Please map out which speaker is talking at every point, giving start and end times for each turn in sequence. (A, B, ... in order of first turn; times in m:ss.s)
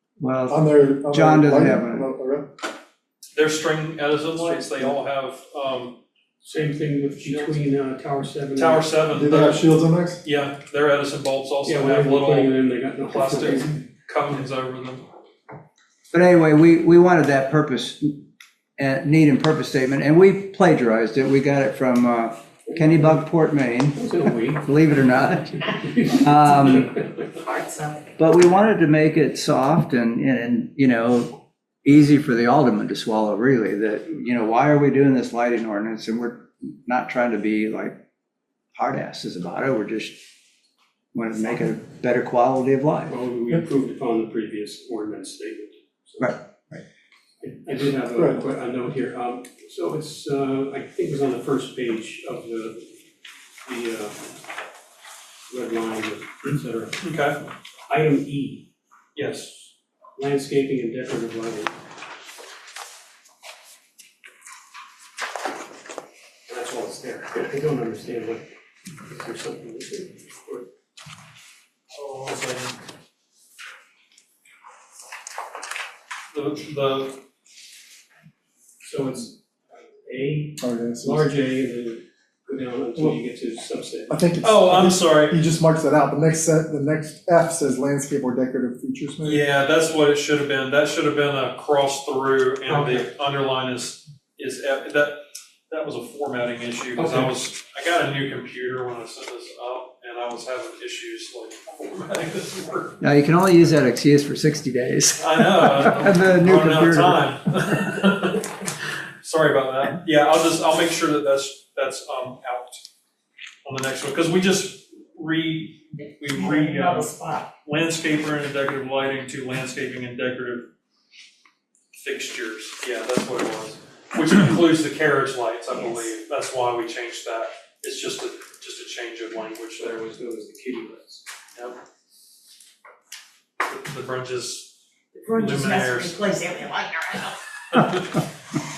0:00.2-0:02.1 A
0:00.5-0:02.5 B
0:03.3-0:06.0 C
0:06.4-0:08.9 D
0:07.2-0:07.6 C
0:08.6-0:12.5 C
0:09.1-0:10.2 B
0:11.6-0:13.8 D
0:13.0-0:15.0 C
0:16.1-0:18.2 A
0:18.8-0:26.9 A
0:22.7-0:23.3 D
0:23.9-0:27.3 D
0:27.3-0:28.1 E
0:28.2-0:38.0 A
0:38.7-0:40.2 A
0:41.1-0:43.2 A
0:43.1-0:46.4 D
0:46.2-0:46.8 A
0:47.4-0:52.9 D
0:48.1-0:48.4 B
0:53.6-0:54.3 D
0:55.5-0:57.0 D
0:57.0-0:57.4 C
0:57.9-0:58.7 D
0:59.2-0:59.7 C
1:00.2-1:01.7 D
1:06.5-1:08.5 D
1:09.0-1:10.7 D
1:11.9-1:12.8 C
1:16.3-1:17.2 C
1:18.8-1:24.2 D
1:20.6-1:21.3 B
1:24.1-1:29.4 B
1:24.4-1:25.4 C
1:29.2-1:43.0 C
1:32.7-1:33.1 D
1:37.0-1:37.4 D
1:43.0-1:47.2 A
1:45.2-1:52.8 C
1:53.6-1:57.1 C
1:56.3-1:57.5 E
1:57.6-2:00.7 C
2:01.9-2:10.0 C
2:05.7-2:06.1 E
2:09.8-2:11.2 D
2:13.6-2:14.8 C
2:15.1-2:17.4 E
2:15.3-2:16.2 C
2:17.7-2:18.2 C